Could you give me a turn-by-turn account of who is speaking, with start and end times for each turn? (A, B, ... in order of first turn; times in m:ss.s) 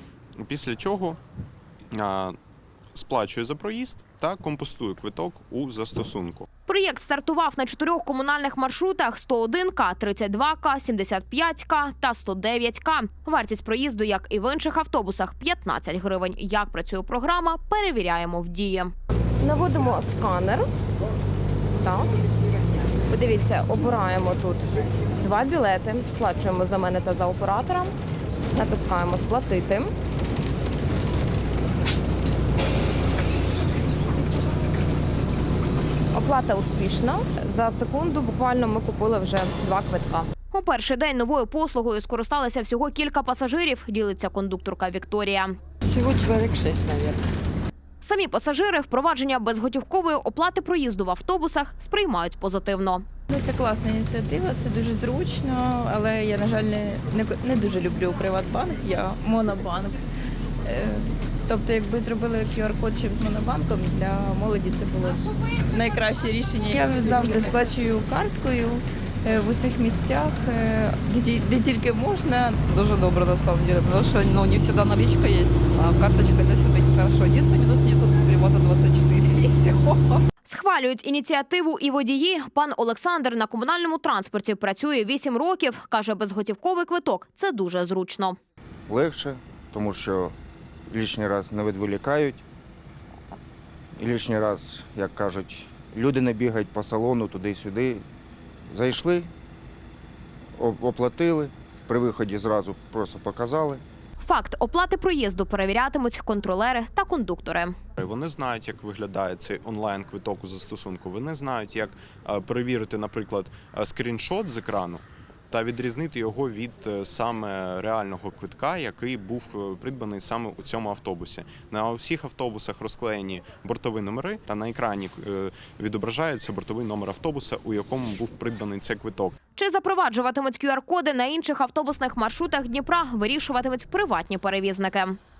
0:00.4-0:01.2 A
0:01.9-0:02.3 A
0:02.9-0:06.5 A
0:06.7-0:18.9 B
0:19.4-0:20.6 C
0:21.8-0:22.2 C
0:23.1-0:27.9 C
0:28.5-0:29.9 C
0:36.1-0:40.3 C
0:40.5-0:45.6 B
0:48.0-0:53.0 B
0:53.3-1:00.0 D
1:00.6-1:12.7 D
1:12.8-1:16.2 E
1:13.4-1:14.7 D
1:18.0-1:19.4 E
1:19.4-1:20.0 D
1:20.4-1:28.4 B
1:28.9-1:30.3 F
1:30.9-1:32.4 F
1:34.0-1:38.0 F
1:38.7-1:39.3 F
1:40.6-1:43.8 F
1:44.2-1:47.8 B
1:48.0-2:09.4 A
2:09.6-2:15.2 B